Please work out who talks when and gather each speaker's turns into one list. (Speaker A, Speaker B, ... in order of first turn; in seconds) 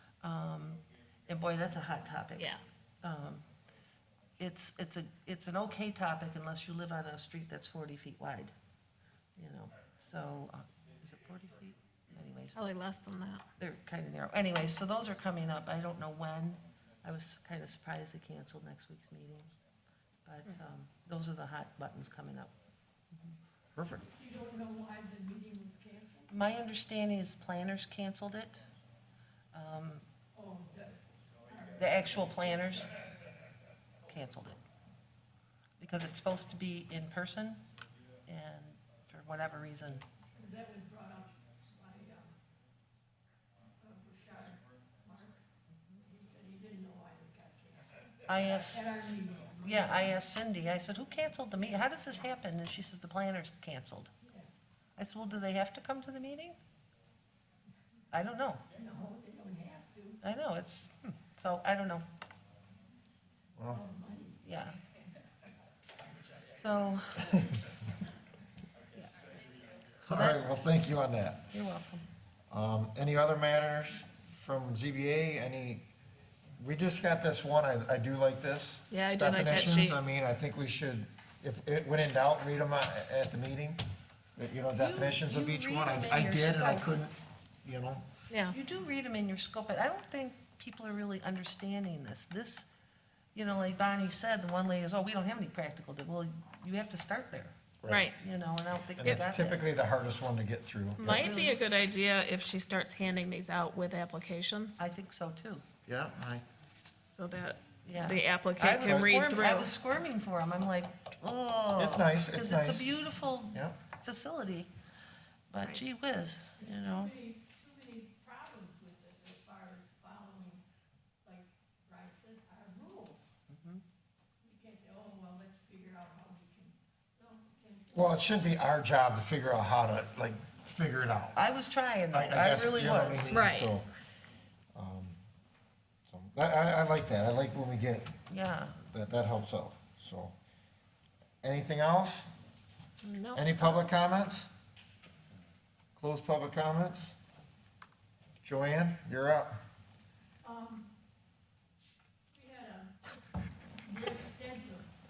Speaker A: 0.2-3.4, 4.4-8.5, 9.4-12.6, 13.6-19.5, 20.2-22.5, 26.3-28.6, 29.5-30.0, 31.7-32.9, 34.1-34.6, 35.8-37.6, 38.3-40.1, 48.2-54.1, 55.0-56.6, 58.1-58.6, 60.2-62.0, 64.4-64.8, 66.5-67.4, 70.0-70.4, 71.5-72.1, 84.8-86.9, 88.5-92.7, 93.3-97.5, 98.1-99.7, 101.0-101.6, 104.8-105.6, 107.8-114.7, 115.5-117.1, 123.5-123.8, 131.3-133.4, 138.3-138.8
Speaker B: 12.5-13.4, 78.9-80.0, 88.3-88.5, 97.9-98.1, 101.0-104.8, 107.1-109.7, 133.3-133.7, 143.0-143.5
Speaker C: 23.8-24.1, 63.6-63.8, 70.0-71.5, 72.5-75.8, 76.6-83.8, 84.4-88.0, 97.8-98.1, 99.0-101.2, 105.8-106.4, 108.9-109.2, 111.8-112.9, 127.9-131.4, 132.1-133.9, 134.7-135.2, 136.1-138.1, 138.8-140.3, 141.4-142.3, 143.3-144.5, 145.9-147.1, 148.4-149.5
Speaker D: 24.1-26.3, 30.3-32.0, 40.3-42.4, 43.8-45.4, 46.0-50.1, 54.2-54.5, 58.7-60.2, 63.7-64.4, 116.9-120.6, 121.2-123.3, 124.4-128.2, 150.4-150.9, 152.3-153.1, 153.7-154.9